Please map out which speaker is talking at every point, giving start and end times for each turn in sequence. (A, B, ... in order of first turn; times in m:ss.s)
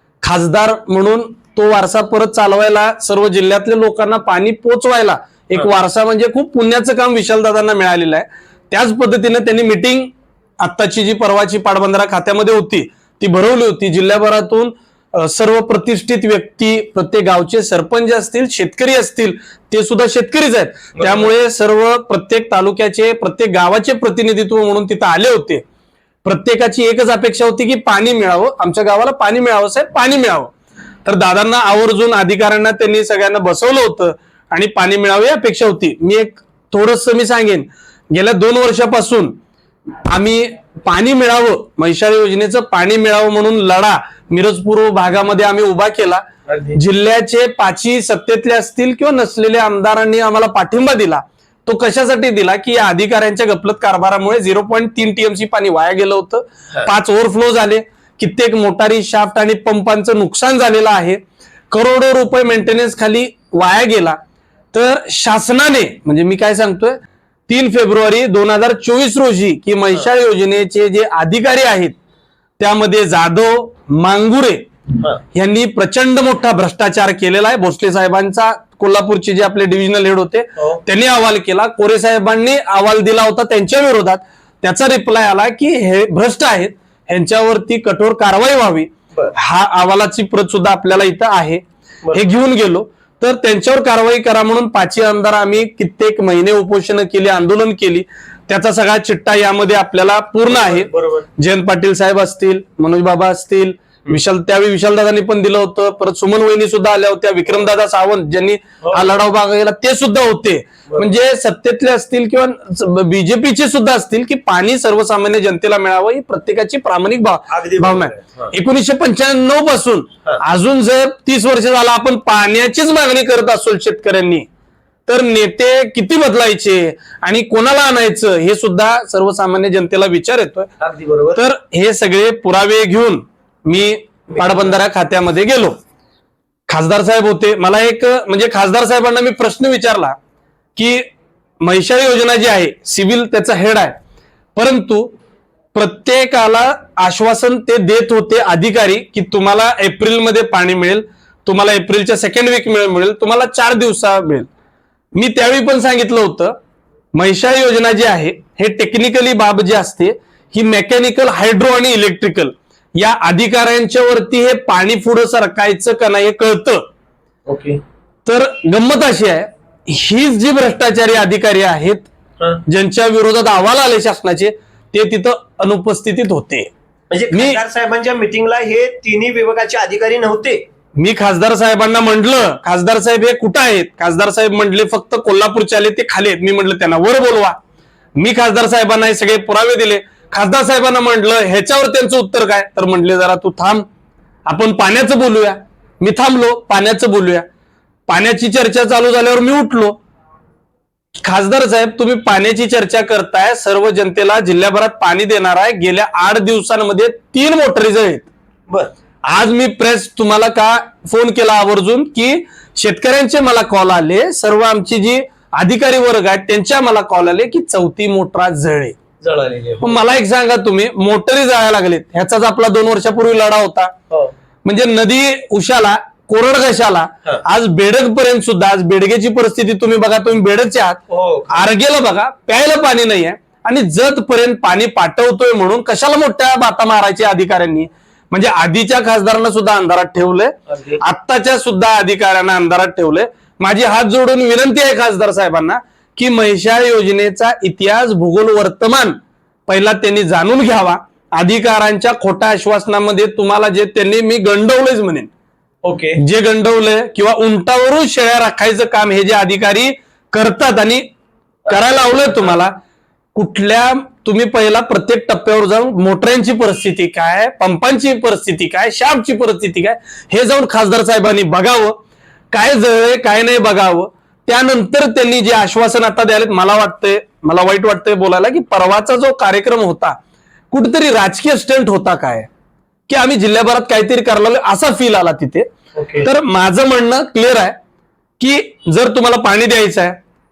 0:00.2-0:25.6 A
0:20.9-0:21.3 B
0:26.2-0:30.5 A
0:31.0-0:39.4 A
0:40.0-1:01.2 A
0:46.5-0:46.8 B
1:01.7-1:04.2 A
1:04.7-1:12.0 A
1:12.6-1:14.7 A
1:15.3-2:04.5 A
1:40.5-1:41.2 B
1:57.5-1:58.5 B
2:05.1-2:10.7 A
2:10.8-2:11.4 B
2:11.4-2:15.8 A
2:14.3-2:14.7 B
2:16.7-2:20.2 A
2:20.8-2:21.0 A
2:21.6-2:24.0 A
2:24.5-2:25.1 A
2:25.7-2:34.5 A
2:35.1-2:36.6 A
2:37.1-2:46.8 A
2:47.4-2:47.8 B
2:48.2-2:52.1 A
2:52.6-2:56.7 A
2:57.1-3:00.6 B
2:57.3-2:57.6 A
3:01.0-3:07.6 A
3:08.2-3:13.8 A
3:14.4-3:17.4 A
3:18.1-3:20.0 A
3:21.2-3:28.3 A
3:29.2-3:39.0 A
3:39.2-3:40.0 B
3:39.8-3:43.9 A
3:44.6-4:15.3 A
3:51.1-3:51.6 B
4:00.7-4:01.0 B
4:15.8-4:16.2 B
4:16.2-4:21.0 A
4:21.7-4:22.8 A
4:21.7-4:22.5 B
4:23.3-4:40.2 A
4:40.7-4:42.5 A
4:43.1-4:45.7 A
4:45.9-4:46.3 B
4:46.2-4:47.8 A
4:48.4-4:50.2 A